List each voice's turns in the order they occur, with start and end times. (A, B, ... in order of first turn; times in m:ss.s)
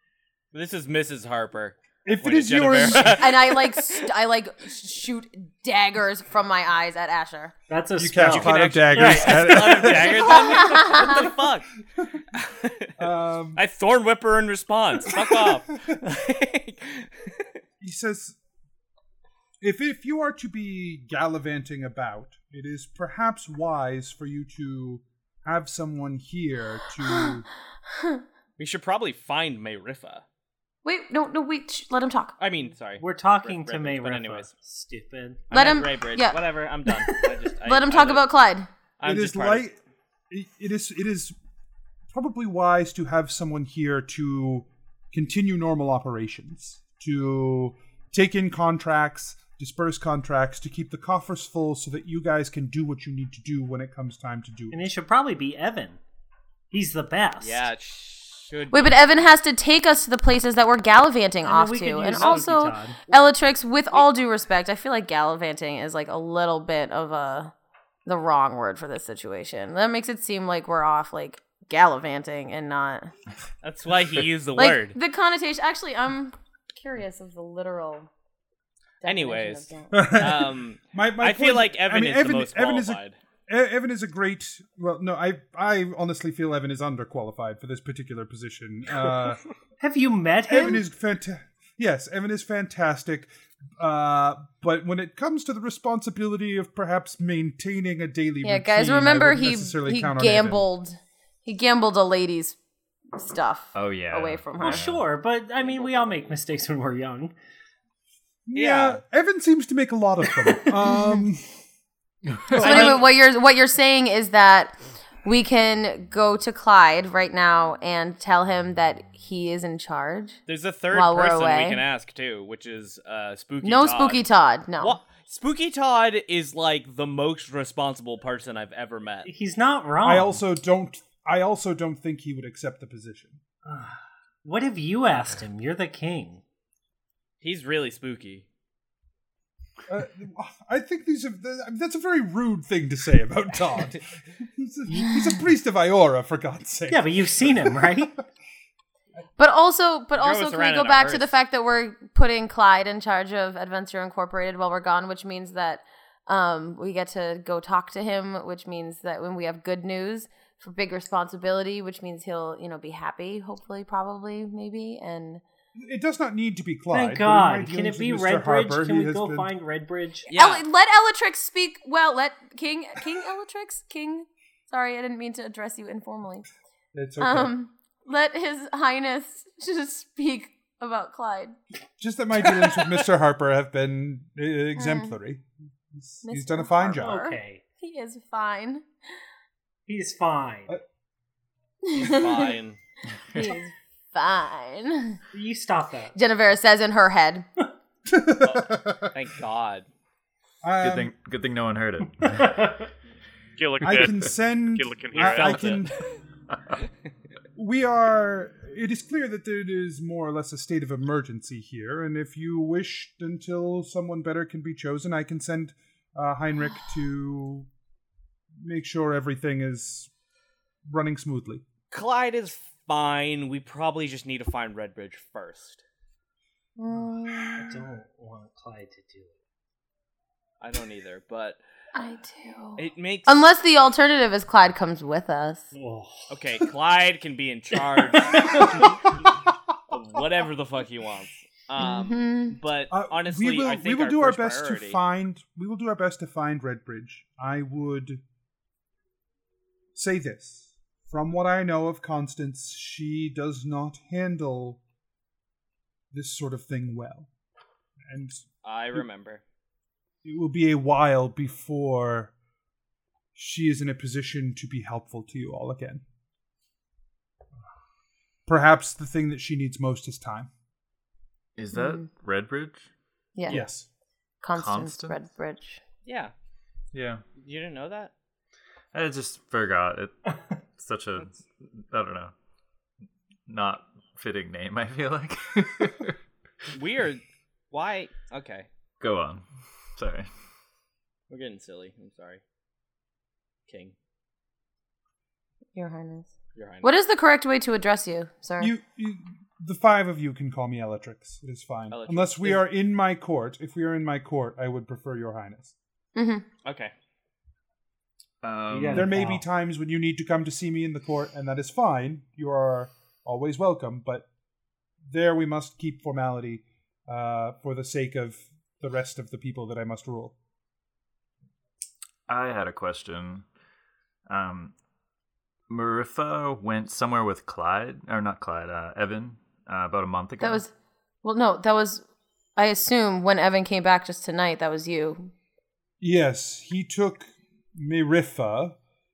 0:00.5-0:04.1 A
0:02.0-0:03.3 B
0:03.1-0:07.5 C
0:07.7-0:10.1 D
0:08.0-0:10.3 B
0:08.2-0:12.9 A
0:10.3-0:11.3 C
0:13.0-0:13.6 B
0:13.5-0:17.6 A
0:17.8-0:18.4 B
0:19.6-0:27.4 B
0:27.0-0:28.2 C
0:28.6-0:30.2 A
0:30.8-0:32.4 C
0:32.4-0:34.5 A
0:33.0-0:35.5 D
0:35.5-0:38.2 A
0:35.5-0:36.4 C
0:37.1-0:37.4 D
0:37.6-0:38.7 C
0:39.0-0:39.6 A
0:39.0-0:39.8 B
0:40.3-0:41.3 B
0:42.1-0:54.8 B
0:54.7-0:56.0 D
0:56.7-0:57.6 D
0:57.4-0:59.2 A
0:58.7-1:07.5 C
1:01.4-1:03.0 D
1:08.0-1:13.1 C
1:13.6-1:15.0 A
1:14.5-1:18.1 C
1:19.0-1:20.2 C
1:19.0-1:23.1 A
1:19.9-1:29.4 B
1:29.8-1:30.8 D
1:30.5-1:40.6 B
1:38.4-1:42.6 C
1:43.2-1:44.8 C
1:43.7-1:45.0 E
1:44.6-1:47.3 D
1:45.6-1:46.4 A
1:48.4-1:51.6 B
1:48.5-1:49.0 A
1:52.5-1:52.8 E
1:52.5-1:53.1 D
1:52.6-2:00.4 C
2:00.5-2:04.2 A
2:00.9-2:01.8 C
2:03.6-2:05.0 C
2:04.8-2:09.3 A
2:09.2-2:10.3 D
2:10.0-2:13.4 B
2:13.7-2:16.4 D
2:17.4-2:18.4 A
2:19.9-2:27.1 B
2:26.9-2:28.2 D
2:29.4-2:45.4 C
2:30.1-2:31.3 A
2:45.8-2:49.5 B
2:46.9-2:50.3 D
2:50.3-2:50.6 A
2:50.3-2:56.5 C
2:56.9-2:57.5 B
2:57.2-3:01.5 C
3:02.0-3:07.2 B
3:04.8-3:05.2 C
3:06.2-3:08.9 C
3:07.0-3:07.6 D
3:09.9-3:10.7 D
3:11.8-3:12.5 C
3:11.9-3:12.8 A
3:13.3-3:15.2 C
3:15.3-3:16.1 D
3:16.1-3:17.4 C
3:18.1-3:19.1 B
3:18.4-3:19.8 A
3:20.6-3:21.1 B
3:20.8-3:22.6 E
3:22.4-3:22.7 D
3:23.6-3:25.8 F
3:23.8-3:26.0 B
3:25.1-3:26.1 A
3:27.6-3:37.7 B
3:38.6-3:40.1 B
3:40.9-3:41.6 B
3:41.9-3:45.8 A
3:46.8-3:47.7 C
3:46.9-3:47.6 B
3:47.6-3:49.4 D
3:50.6-3:51.6 A
3:51.9-3:55.7 C
3:52.8-3:53.4 A
3:55.7-3:56.3 D
3:56.3-3:59.1 A
3:59.9-4:05.0 A
4:01.8-4:02.6 C
4:02.9-4:08.2 B
4:09.9-4:14.8 B
4:16.1-4:17.3 B
4:18.1-4:18.4 B
4:18.6-4:19.4 A
4:20.2-4:22.3 B
4:23.3-4:26.0 B
4:28.4-4:30.5 B
4:31.6-4:32.9 E
4:31.7-4:32.0 C
4:33.4-4:33.6 C
4:33.5-4:33.8 B
4:34.4-4:35.8 C
4:34.5-4:35.2 E
4:36.0-4:36.3 A
4:36.9-4:37.2 E
4:37.4-4:38.1 A
4:38.9-4:42.3 E
4:43.5-4:46.2 E
4:46.7-4:48.6 A
4:49.0-4:50.3 E
4:51.3-4:52.4 A
4:53.7-4:53.9 A
4:55.7-4:56.3 C
4:56.5-4:56.9 A
4:56.8-4:58.7 C
4:58.6-5:05.7 B
5:01.9-5:02.6 A
5:06.2-5:06.4 C
5:06.6-5:06.9 A
5:08.4-5:09.1 E
5:08.7-5:09.4 D
5:08.9-5:14.3 B
5:15.1-5:20.3 B
5:22.3-5:23.4 E
5:24.3-5:24.7 E
5:25.7-5:30.6 E
5:30.4-5:30.7 C
5:31.2-5:32.0 C
5:32.6-5:35.3 C
5:36.0-5:38.8 B